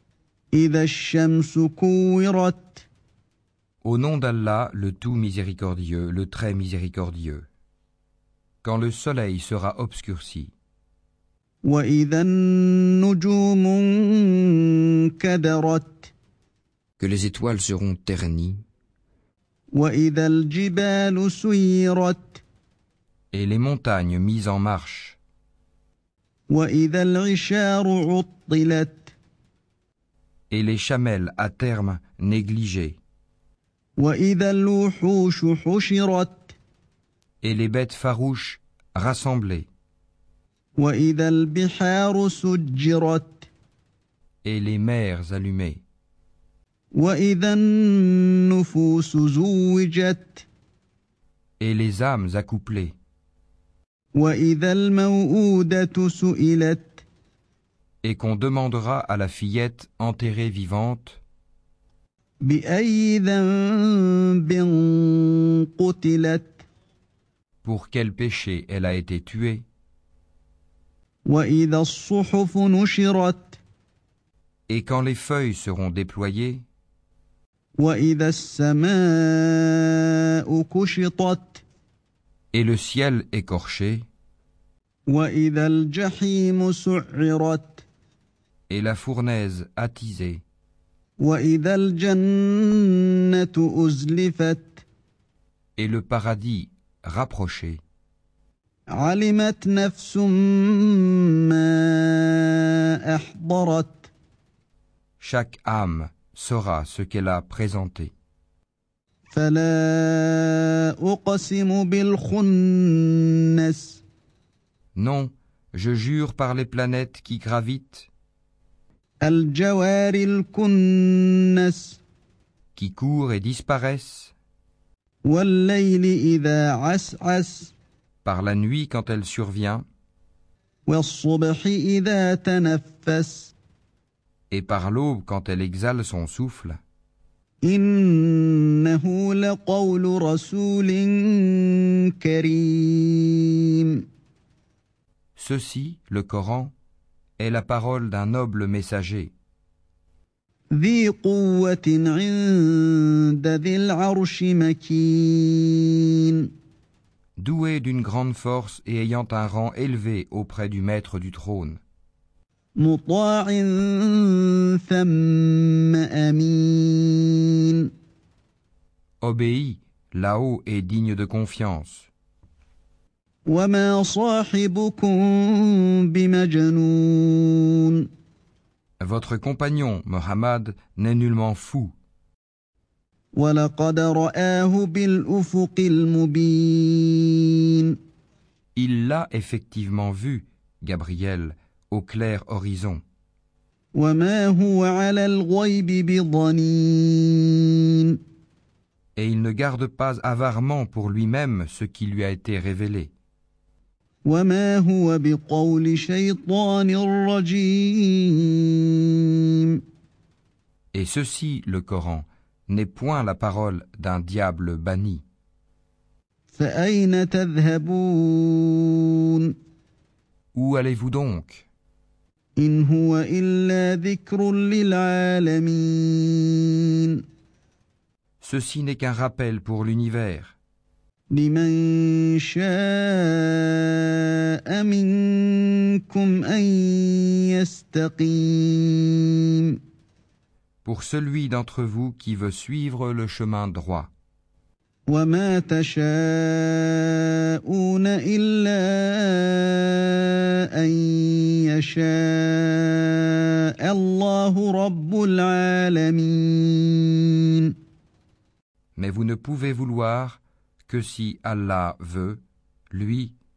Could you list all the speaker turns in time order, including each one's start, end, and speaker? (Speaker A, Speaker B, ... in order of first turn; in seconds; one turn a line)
Speaker A: 0.5-2.9
Speaker B: 3.8-7.5
Speaker B: 8.6-10.5
Speaker A: 11.6-16.1
Speaker B: 17.0-18.6
Speaker A: 19.7-22.4
Speaker B: 23.3-25.2
Speaker A: 26.5-29.1
Speaker B: 30.5-33.0
Speaker A: 34.0-36.6
Speaker B: 37.4-39.7
Speaker A: 40.8-43.5
Speaker B: 44.4-45.8
Speaker A: 46.9-50.5
Speaker B: 51.6-53.0
Speaker A: 54.1-57.0
Speaker B: 58.0-61.2
Speaker A: 62.4-66.7
Speaker B: 67.6-69.7
Speaker A: 71.3-73.6
Speaker B: 74.7-76.7
Speaker A: 77.8-81.6
Speaker B: 82.5-84.1
Speaker A: 85.1-87.8
Speaker B: 88.7-90.4
Speaker A: 91.2-94.8
Speaker B: 95.8-97.8
Speaker A: 98.9-104.1
Speaker B: 105.2-108.1
Speaker A: 109.3-114.0
Speaker B: 115.0-118.1
Speaker A: 119.2-122.0
Speaker B: 122.8-124.3
Speaker A: 125.2-127.7
Speaker B: 128.2-129.9
Speaker A: 130.9-133.5
Speaker B: 134.5-136.8
Speaker A: 137.6-144.0
Speaker B: 145.4-146.7
Speaker B: 147.4-149.3
Speaker A: 150.7-156.5
Speaker B: 157.4-161.8
Speaker A: 162.8-167.9
Speaker B: 169.2-172.1
Speaker A: 173.5-178.1
Speaker B: 179.0-181.9
Speaker A: 183.3-188.0
Speaker B: 188.8-193.0
Speaker A: 193.9-198.2
Speaker B: 199.2-203.1
Speaker A: 204.2-209.8
Speaker B: 210.9-215.2
Speaker A: 216.5-219.5
Speaker B: 220.5-221.7
Speaker A: 222.6-227.2
Speaker B: 228.4-230.6
Speaker A: 231.3-239.8
Speaker B: 240.8-244.1
Speaker A: 245.1-257.8
Speaker B: 259.0-263.4